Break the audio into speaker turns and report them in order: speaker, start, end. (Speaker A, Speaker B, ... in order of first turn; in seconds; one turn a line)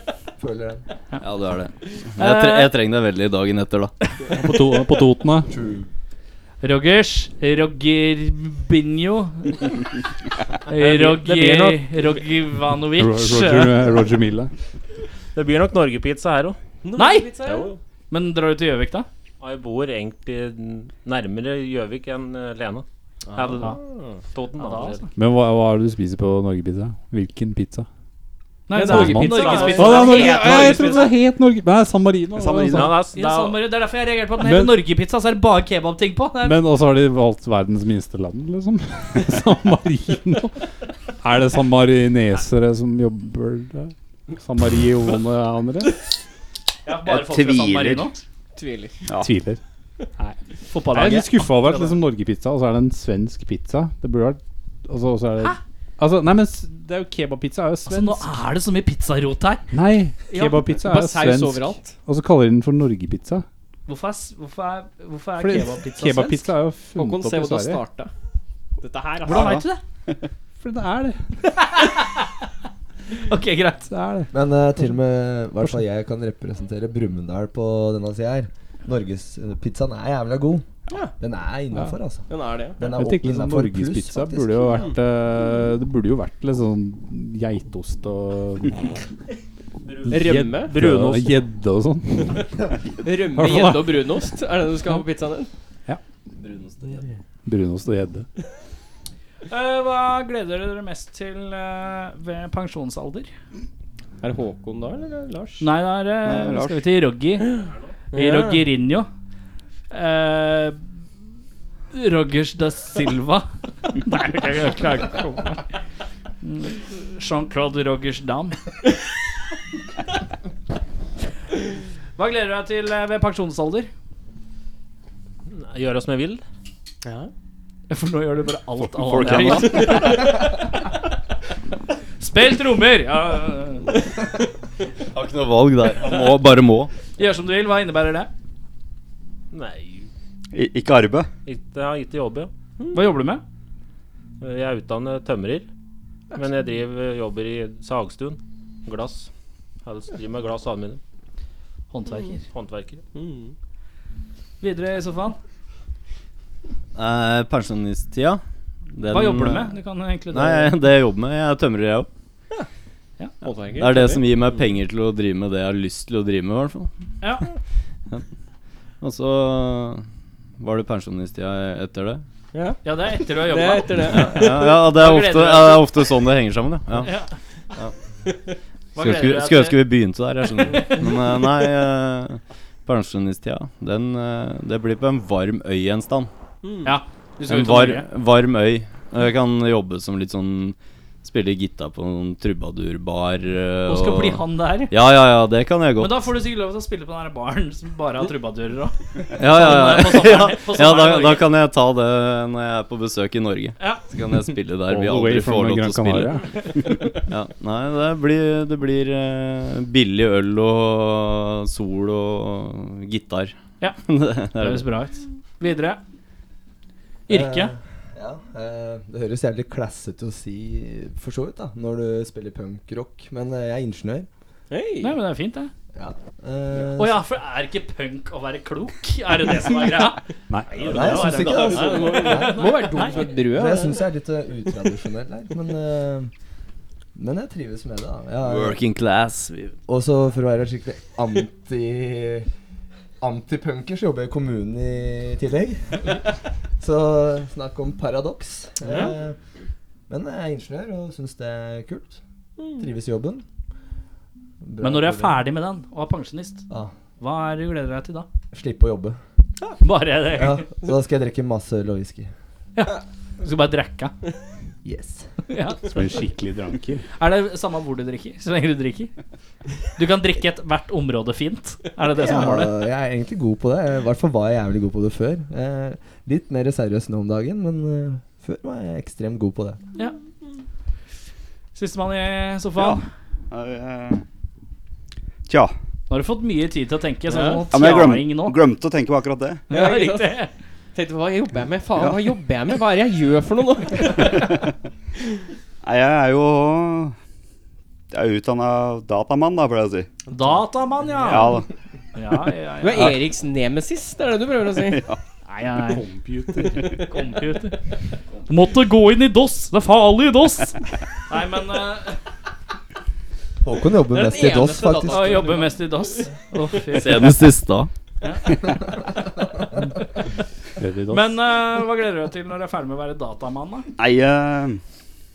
Speaker A: 0.4-0.8
Speaker B: 1.2-3.9
Speaker C: 2.2-2.7
Speaker D: 4.3-5.5
Speaker A: 5.5-5.9
Speaker C: 6.6-9.7
Speaker C: 10.7-13.7
Speaker E: 10.8-12.1
Speaker D: 13.0-14.5
Speaker E: 15.3-16.6
Speaker F: 16.8-17.8
Speaker C: 16.9-17.3
Speaker E: 17.4-17.8
Speaker C: 18.1-19.1
Speaker E: 19.4-23.8
Speaker F: 23.3-24.2
Speaker E: 24.3-25.1
Speaker C: 24.5-25.0
Speaker D: 25.1-27.9
Speaker C: 28.7-31.1
Speaker F: 28.7-30.8
Speaker D: 28.8-33.0
Speaker E: 29.6-30.6
Speaker G: 32.3-33.0
Speaker E: 32.7-33.6
Speaker C: 33.1-36.6
Speaker D: 34.4-34.8
Speaker D: 36.4-40.6
Speaker D: 41.2-46.0
Speaker C: 46.9-48.2
Speaker G: 47.0-48.1
Speaker F: 48.5-49.0
Speaker D: 49.2-49.6
Speaker C: 50.7-51.9
Speaker D: 50.9-58.3
Speaker C: 57.9-59.7
Speaker D: 59.7-63.5
Speaker C: 60.3-60.6
Speaker F: 60.8-61.9
Speaker C: 63.9-66.5
Speaker D: 65.4-67.8
Speaker F: 67.0-68.1
Speaker F: 68.8-69.6
Speaker G: 69.2-69.7
Speaker C: 69.2-69.8
Speaker D: 70.6-71.4
Speaker C: 71.6-72.3
Speaker C: 73.2-73.9
Speaker D: 73.9-74.9
Speaker A: 74.3-80.7
Speaker F: 80.9-81.1
Speaker A: 81.2-84.8
Speaker D: 81.7-82.0
Speaker F: 82.3-82.8
Speaker D: 82.8-88.8
Speaker D: 90.1-92.5
Speaker F: 90.1-90.8
Speaker E: 90.6-91.3
Speaker F: 93.0-95.5
Speaker D: 93.3-94.1
Speaker B: 96.3-97.1
Speaker D: 97.5-98.3
Speaker C: 99.5-103.3
Speaker F: 104.2-105.7
Speaker C: 105.6-107.5
Speaker B: 106.3-106.7
Speaker F: 108.1-108.6
Speaker C: 108.1-109.1
Speaker C: 109.9-110.8
Speaker C: 111.9-115.6
Speaker C: 116.4-118.6
Speaker C: 122.2-123.9
Speaker E: 125.5-126.4
Speaker F: 127.0-127.3
Speaker C: 127.9-130.4
Speaker G: 129.0-130.1
Speaker C: 132.2-133.9
Speaker B: 135.1-136.9
Speaker C: 137.2-138.3
Speaker E: 139.5-140.1
Speaker G: 140.5-141.3
Speaker E: 141.4-142.5
Speaker C: 142.9-143.4
Speaker E: 144.4-145.7
Speaker E: 146.3-149.3
Speaker E: 149.8-151.0
Speaker C: 151.9-152.4
Speaker E: 152.5-153.0
Speaker F: 153.1-153.5
Speaker C: 154.6-155.4
Speaker B: 156.9-158.4
Speaker B: 158.9-159.7
Speaker C: 159.1-160.8
Speaker B: 160.3-162.1
Speaker F: 163.4-164.3
Speaker B: 163.8-166.9
Speaker B: 169.0-170.0
Speaker B: 170.6-172.2
Speaker F: 172.5-174.7
Speaker C: 172.8-176.0
Speaker B: 174.0-177.1
Speaker C: 177.0-177.3
Speaker C: 178.9-179.8
Speaker B: 179.0-186.3
Speaker F: 186.6-186.9
Speaker C: 186.8-188.1
Speaker B: 187.4-196.2
Speaker C: 193.9-194.9
Speaker C: 196.0-201.5
Speaker B: 199.4-206.4
Speaker C: 203.8-204.0
Speaker D: 204.9-206.4
Speaker B: 207.1-213.5
Speaker B: 214.0-214.9
Speaker C: 214.5-216.0
Speaker C: 217.3-217.7
Speaker A: 217.3-224.3
Speaker F: 224.7-225.2
Speaker C: 225.0-225.7
Speaker A: 225.9-227.2
Speaker C: 226.9-233.3
Speaker D: 230.5-231.0
Speaker A: 230.8-236.3
Speaker F: 231.3-234.0
Speaker A: 237.1-238.8
Speaker B: 238.4-239.7
Speaker A: 239.9-242.5
Speaker A: 243.2-249.3
Speaker F: 248.8-249.1
Speaker A: 250.1-252.2
Speaker F: 252.6-252.9
Speaker A: 252.8-253.4
Speaker A: 254.6-255.4
Speaker C: 254.8-256.6
Speaker C: 257.2-258.3
Speaker A: 258.5-259.2
Speaker C: 259.8-260.6
Speaker A: 260.3-262.3
Speaker C: 262.7-264.1
Speaker A: 264.8-265.3
Speaker C: 265.5-266.1
Speaker D: 265.9-267.1
Speaker C: 267.2-269.1
Speaker C: 269.9-272.8
Speaker A: 272.1-279.8
Speaker C: 281.8-283.0
Speaker G: 282.8-284.2
Speaker G: 285.5-285.7
Speaker C: 286.1-288.6
Speaker F: 287.3-287.6
Speaker G: 287.7-289.6
Speaker C: 289.7-290.5
Speaker F: 289.7-290.4
Speaker F: 290.9-294.6
Speaker G: 291.9-292.3
Speaker G: 294.1-294.7
Speaker G: 295.8-297.1
Speaker G: 298.1-300.1
Speaker C: 300.3-301.6
Speaker G: 301.2-301.7
Speaker C: 302.1-303.2
Speaker F: 302.8-305.1
Speaker G: 304.9-305.2
Speaker C: 305.4-306.0
Speaker D: 305.8-307.0
Speaker C: 306.8-307.8
Speaker C: 308.5-312.2
Speaker A: 313.6-315.5
Speaker F: 314.1-315.8
Speaker C: 315.1-317.5
Speaker B: 316.9-317.9
Speaker C: 318.2-318.6
Speaker D: 320.8-321.4
Speaker C: 321.1-323.9
Speaker G: 324.0-324.8